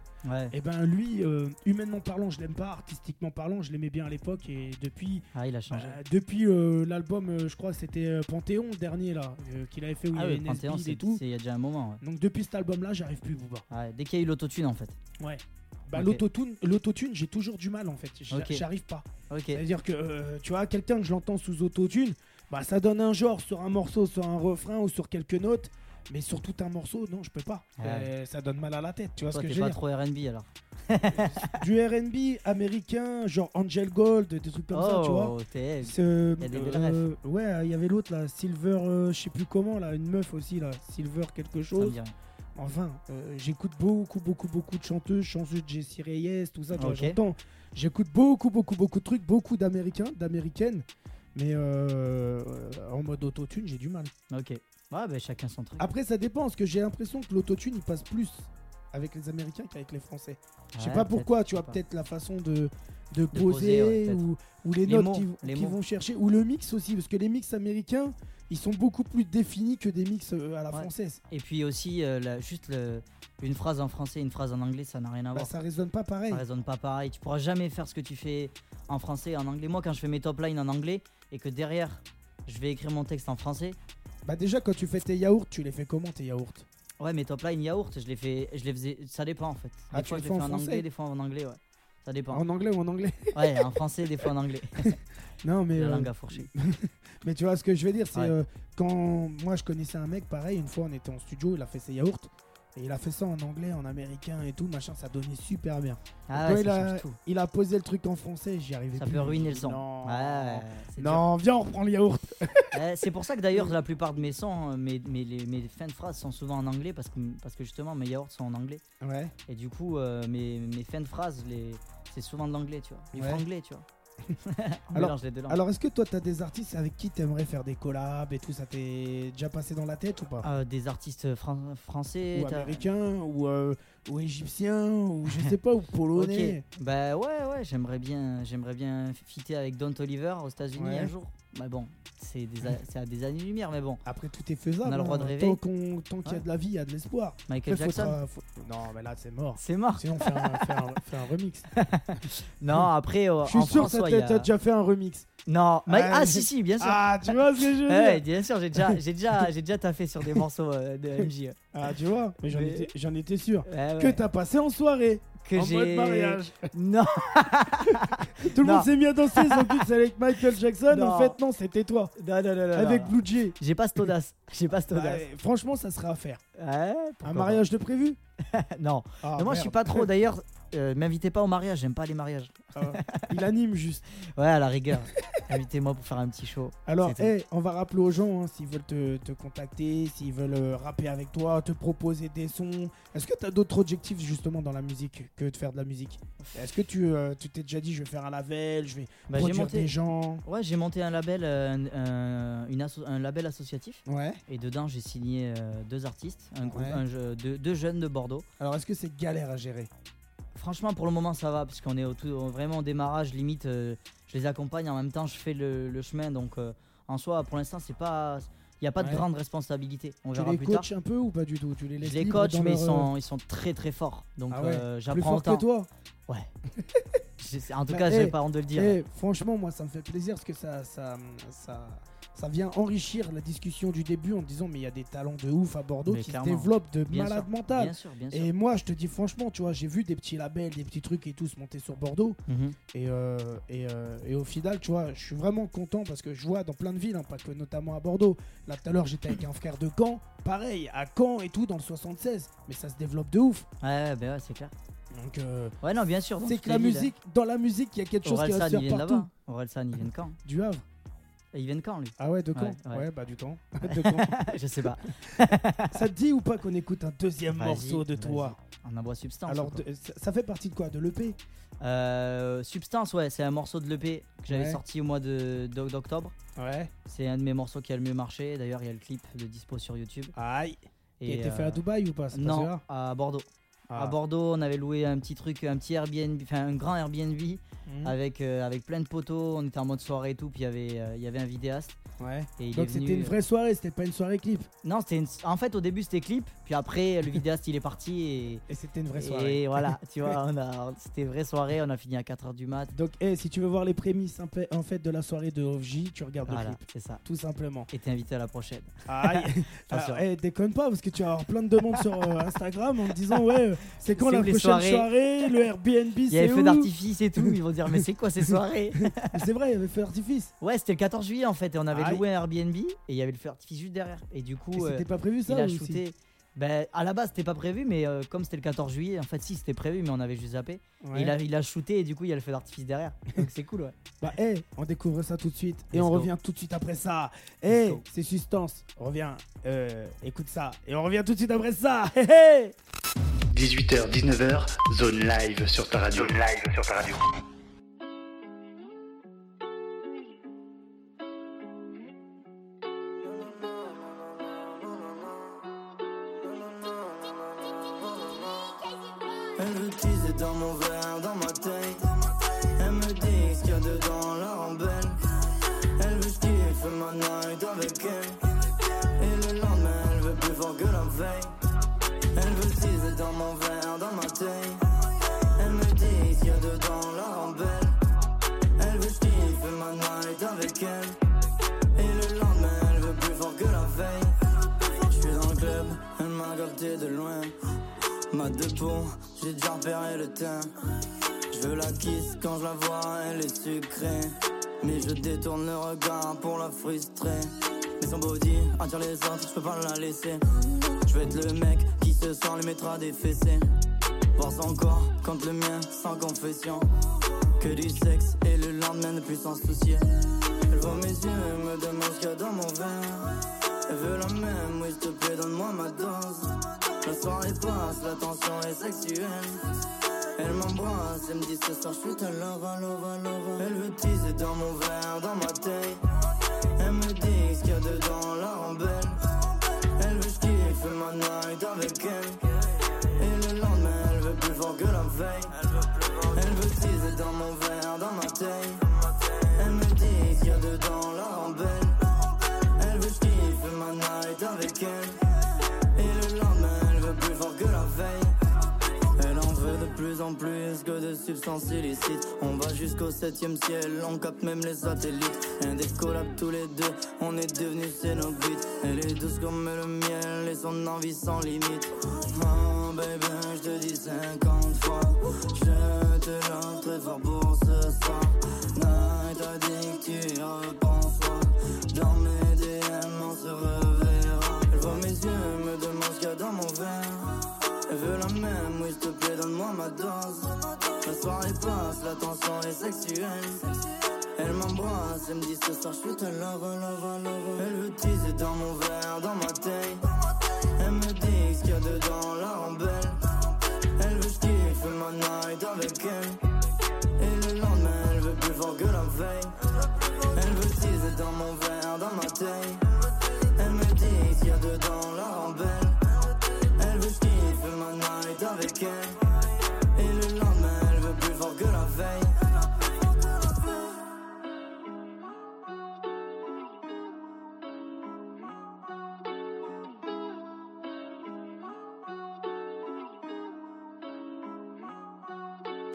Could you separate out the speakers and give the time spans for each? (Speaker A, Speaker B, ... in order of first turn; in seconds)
Speaker A: 0.2-0.5, 5.3-6.0, 10.1-12.0, 13.7-15.0, 15.9-16.2, 18.3-18.6, 19.3-19.6, 27.8-28.1, 29.3-31.6, 34.7-37.1, 41.8-42.1, 46.8-47.2, 54.3-55.9, 60.7-61.8, 63.3-64.3, 64.9-65.8, 70.7-75.5, 76.3-83.8, 87.0-92.4, 93.3-95.0, 95.8-96.5, 106.3-107.2, 109.0-111.2, 112.7-118.8, 119.5-123.8, 124.4-125.6, 130.4-132.8, 136.2-144.0, 144.8-145.6, 147.5-148.2, 149.6-150.9, 151.7-154.5, 155.5-161.6, 162.5-162.9, 163.7-164.2, 165.4-169.9, 170.9-171.4, 172.2-175.2, 176.6-177.6, 178.5-183.3, 184.2-187.3, 199.3-208.5, 210.6-220.9, 222.0-225.7, 227.4-229.0, 236.1-238.5, 242.5-242.8, 253.8-254.7, 255.8-257.1, 258.2-260.4, 261.5-263.1, 263.8-266.0, 267.5-269.8, 271.8-276.3, 277.1-280.3, 281.2-292.0, 292.6-293.4, 294.8-298.6, 299.2-302.9, 306.5-307.2, 307.9-310.2, 314.1-315.1, 316.3-319.4, 320.6-334.0, 335.9-336.3, 337.7-338.0, 359.6-362.0, 362.8-365.1, 366.0-368.4, 369.1-371.5, 372.4-374.8, 375.7-377.9, 379.0-380.7, 382.2-384.1, 385.3-387.1, 424.3-424.9, 434.1-438.7, 439.5-440.9, 441.4-441.7, 443.1-443.6, 457.0-457.5, 491.5-492.8, 498.8-499.2, 500.5-501.1
Speaker B: 0.5-11.2, 12.0-13.7, 15.2-29.8, 31.0-42.0, 42.6-54.1, 55.8-71.2, 75.3-76.5, 84.2-86.7, 89.9-90.8, 92.3-112.8, 119.0-119.3, 123.1-123.4, 124.9-130.5, 132.3-136.6, 140.8-141.1, 144.1-151.7, 153.4-155.3, 155.9-158.2, 161.2-166.7, 167.8-172.1, 172.7-173.6, 174.9-176.4, 177.2-178.2, 179.2-180.1, 182.7-184.0, 186.9-200.4, 204.1-204.4, 206.6-207.0, 208.6-209.9, 219.0-219.3, 220.3-223.1, 224.5-225.9, 226.8-227.2, 227.9-242.4, 242.9-253.7, 255.1-255.8, 256.4-259.3, 260.4-260.9, 262.2-264.4, 265.9-268.6, 269.5-271.4, 274.5-274.8, 276.6-276.9, 280.4-282.8, 283.9-284.2, 287.9-288.1, 292.2-294.7, 298.7-300.4, 302.9-307.9, 309.1-318.0, 319.0-320.5, 321.9-322.2, 324.7-326.0, 331.0-331.4, 334.2-342.8
Speaker C: 343.5-347.2
Speaker D: 359.6-362.0, 362.8-365.2, 366.0-368.4, 369.0-371.5, 372.4-377.9, 378.8-381.2, 382.0-384.3, 385.1-387.5, 388.3-390.7, 391.5-400.4, 401.1-403.6, 404.4-406.9, 407.5-410.0, 410.7-419.7, 420.4-426.1, 426.8-445.4, 445.9-448.3, 449.2-496.4, 497.2-512.6